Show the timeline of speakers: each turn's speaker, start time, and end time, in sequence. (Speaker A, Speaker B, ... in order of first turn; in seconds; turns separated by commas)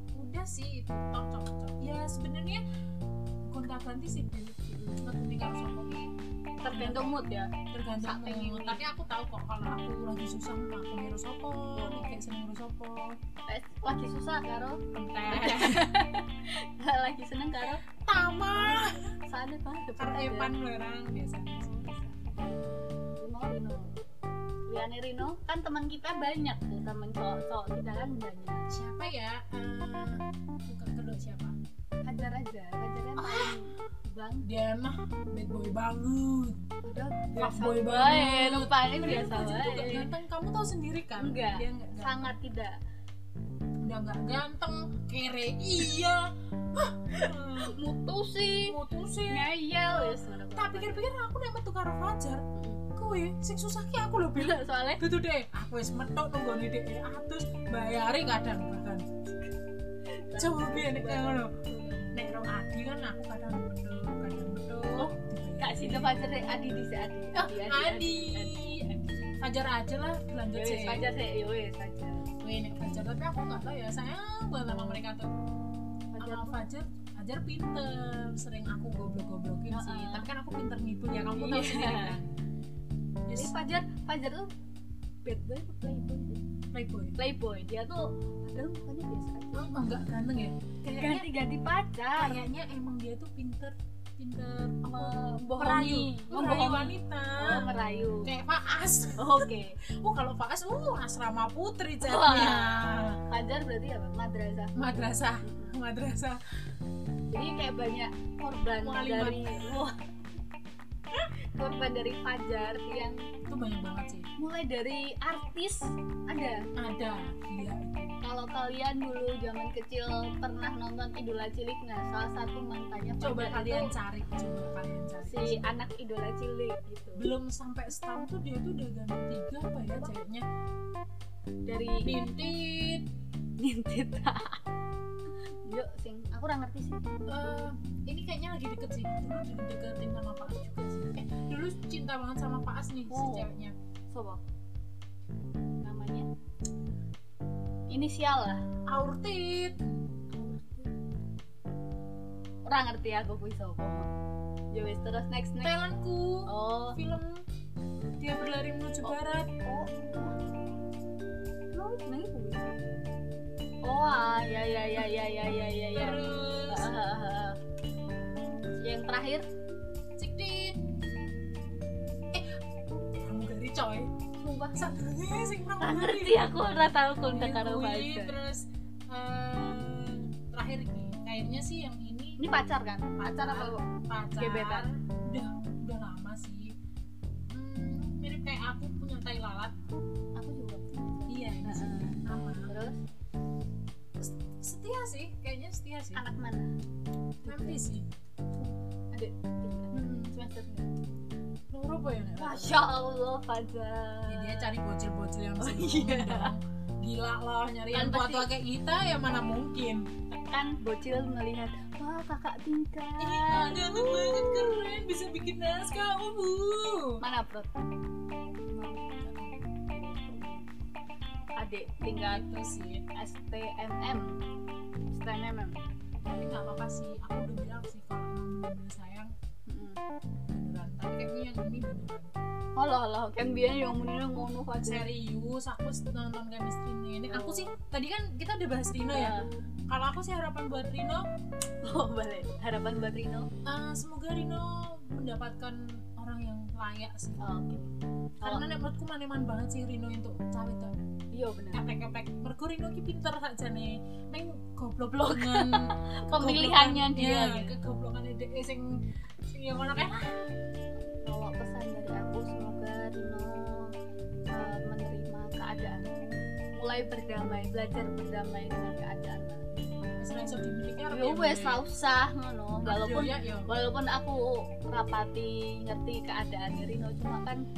Speaker A: 0.1-2.6, Speaker A: 3.5-6.1, Speaker B: 4.7-5.1, Speaker B: 6.6-8.8, Speaker A: 6.7-7.2, Speaker A: 7.7-13.2, Speaker B: 11.7-12.1, Speaker B: 13.5-17.8, Speaker A: 14.9-15.9, Speaker A: 18.0-19.1, Speaker B: 18.5-20.5, Speaker A: 20.0-21.7, Speaker B: 21.5-22.4, Speaker B: 23.2-23.9, Speaker B: 24.7-28.7, Speaker A: 28.7-31.6, Speaker B: 32.0-34.5, Speaker A: 33.2-33.6, Speaker A: 34.4-36.6, Speaker B: 36.8-40.1, Speaker A: 37.4-42.3, Speaker B: 41.2-42.8, Speaker A: 43.8-47.8, Speaker B: 47.1-48.8, Speaker A: 48.6-52.4, Speaker B: 49.3-51.1, Speaker B: 52.5-52.8, Speaker A: 52.9-59.1, Speaker B: 54.4-55.0, Speaker B: 60.1-62.3, Speaker A: 60.4-61.6, Speaker A: 62.1-66.2, Speaker B: 65.0-69.3, Speaker A: 67.3-68.8, Speaker A: 69.4-71.0, Speaker B: 70.5-72.3, Speaker A: 72.4-75.3, Speaker B: 76.1-76.7, Speaker A: 76.2-82.3, Speaker B: 79.7-80.3, Speaker B: 81.3-82.2, Speaker A: 83.3-83.5, Speaker B: 83.3-84.5, Speaker B: 85.2-86.4, Speaker A: 86.7-87.2, Speaker B: 87.2-90.0, Speaker A: 89.5-91.3, Speaker B: 90.9-92.4, Speaker A: 92.2-97.7, Speaker B: 94.8-98.3, Speaker A: 98.2-103.2, Speaker B: 99.2-99.8, Speaker B: 102.0-105.8, Speaker A: 104.7-106.4, Speaker B: 107.3-110.0, Speaker A: 108.8-109.8, Speaker B: 111.1-113.3, Speaker A: 113.4-114.3, Speaker B: 114.4-116.7, Speaker A: 116.8-118.2, Speaker B: 118.2-123.9, Speaker A: 123.2-125.8, Speaker B: 125.2-127.3, Speaker A: 127.2-130.4, Speaker B: 131.6-132.2, Speaker A: 132.0-133.1, Speaker B: 133.6-134.6, Speaker B: 135.6-137.1, Speaker A: 137.3-143.7, Speaker B: 143.1-143.5, Speaker B: 144.1-144.4, Speaker B: 145.8-146.3, Speaker B: 147.9-148.6, Speaker A: 148.9-149.9, Speaker B: 150.3-150.9, Speaker B: 152.7-154.1, Speaker B: 154.7-155.8, Speaker A: 155.6-157.4, Speaker B: 156.5-157.0, Speaker A: 158.2-159.5, Speaker B: 159.6-160.3, Speaker B: 161.7-162.9, Speaker B: 163.8-167.6, Speaker A: 165.9-166.9, Speaker B: 168.8-169.4, Speaker A: 170.2-170.8, Speaker A: 172.3-172.6, Speaker A: 173.2-174.1, Speaker B: 174.4-174.9, Speaker A: 174.7-182.4, Speaker B: 175.8-178.4, Speaker B: 182.4-184.9, Speaker A: 183.2-186.7, Speaker A: 187.5-189.8, Speaker B: 190.3-193.0, Speaker A: 191.3-192.7, Speaker A: 194.2-196.2, Speaker B: 196.1-196.7, Speaker B: 197.4-197.8, Speaker A: 197.4-198.1, Speaker B: 198.6-201.0, Speaker A: 199.9-200.3, Speaker A: 201.7-202.8, Speaker B: 202.4-204.7, Speaker A: 204.3-210.1, Speaker B: 205.6-206.5, Speaker B: 207.9-208.5, Speaker B: 210.3-214.9, Speaker A: 213.2-217.2, Speaker B: 217.2-217.7, Speaker B: 218.7-219.2, Speaker A: 219.2-219.7, Speaker B: 219.9-220.7, Speaker B: 221.6-222.4, Speaker A: 222.3-223.1, Speaker B: 223.1-224.4, Speaker B: 225.1-225.8, Speaker A: 226.2-229.3, Speaker B: 229.7-230.0, Speaker A: 230.5-232.3, Speaker B: 232.8-235.1, Speaker A: 234.8-241.2, Speaker B: 237.3-237.7, Speaker B: 239.1-239.5, Speaker B: 241.8-243.5, Speaker A: 243.6-247.4, Speaker B: 247.4-247.9, Speaker B: 248.4-248.7, Speaker A: 248.4-250.9, Speaker B: 251.3-251.9, Speaker A: 251.7-258.9, Speaker B: 255.1-257.7, Speaker A: 259.4-260.4, Speaker B: 261.2-263.9, Speaker B: 264.5-266.1, Speaker B: 266.7-269.7, Speaker A: 269.8-271.8, Speaker B: 271.1-277.6, Speaker A: 272.8-273.7